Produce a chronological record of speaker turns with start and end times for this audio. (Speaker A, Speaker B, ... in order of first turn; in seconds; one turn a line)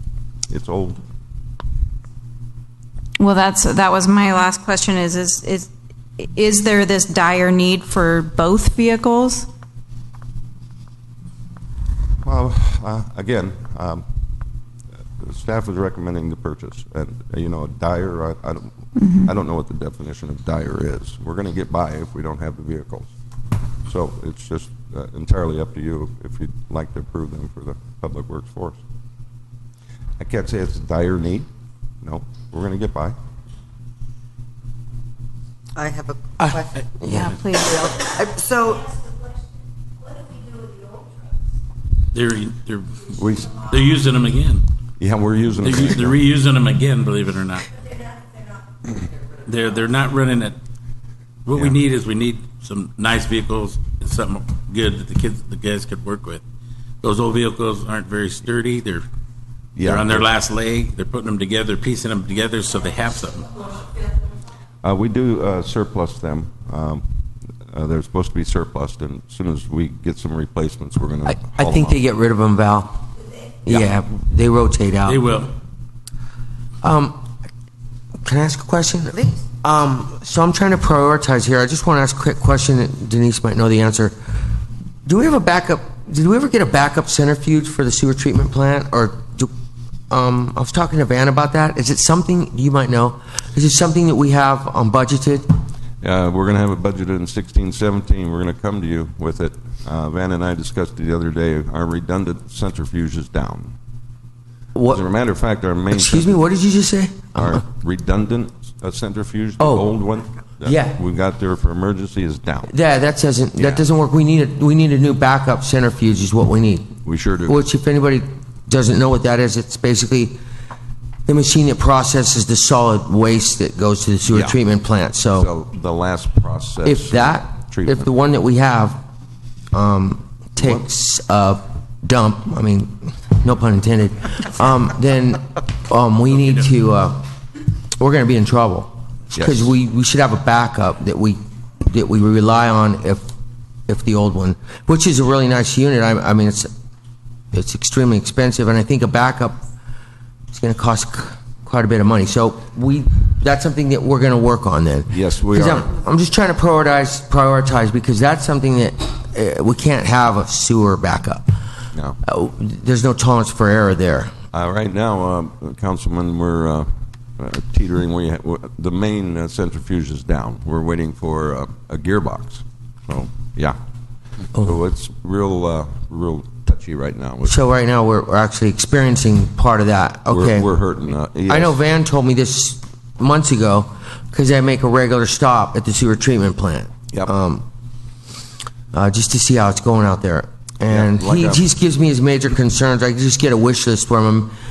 Speaker A: 0.5-1.0
Speaker B: 3.2-9.5
Speaker A: 12.2-14.1
Speaker A: 15.2-23.1
Speaker B: 19.0-19.3
Speaker A: 23.9-28.8
Speaker A: 30.2-31.5
Speaker A: 32.0-33.2
Speaker C: 35.8-36.9
Speaker D: 37.0-37.3
Speaker B: 37.1-37.8
Speaker C: 37.5-39.0
Speaker E: 42.1-44.6
Speaker A: 43.1-43.6
Speaker A: 45.0-46.1
Speaker E: 45.6-47.7
Speaker E: 49.5-50.6
Speaker E: 51.5-56.4
Speaker E: 57.0-59.1
Speaker A: 59.8-60.3
Speaker E: 59.8-63.7
Speaker A: 64.8-67.0
Speaker A: 67.7-72.0
Speaker D: 71.3-73.0
Speaker D: 73.6-75.2
Speaker E: 75.1-75.5
Speaker D: 76.8-77.2
Speaker D: 78.2-84.2
Speaker C: 79.1-79.4
Speaker D: 85.0-89.5
Speaker D: 90.1-95.5
Speaker A: 96.0-103.8
Speaker D: 104.7-105.0
Speaker A: 104.8-106.4
Speaker D: 105.9-107.6
Speaker A: 107.4-112.7
Speaker D: 109.6-109.9
Speaker D: 110.6-111.0
Speaker D: 112.7-117.0
Speaker A: 113.6-113.8
Speaker A: 117.0-117.6
Speaker D: 117.5-120.4
Speaker D: 121.3-125.5
Speaker A: 124.3-124.6
Speaker A: 125.3-128.1
Speaker D: 126.8-129.0
Speaker D: 129.7-137.3
Speaker D: 138.0-143.3
Speaker A: 139.3-139.7
Speaker D: 143.9-146.7
Speaker D: 147.5-149.6
Speaker D: 150.5-161.6
Speaker A: 155.1-155.9
Speaker D: 162.2-164.3
Speaker A: 164.5-173.8
Speaker A: 174.5-177.6
Speaker D: 177.5-180.7
Speaker A: 180.3-181.8
Speaker D: 181.5-187.7
Speaker D: 188.9-194.5
Speaker A: 190.9-191.7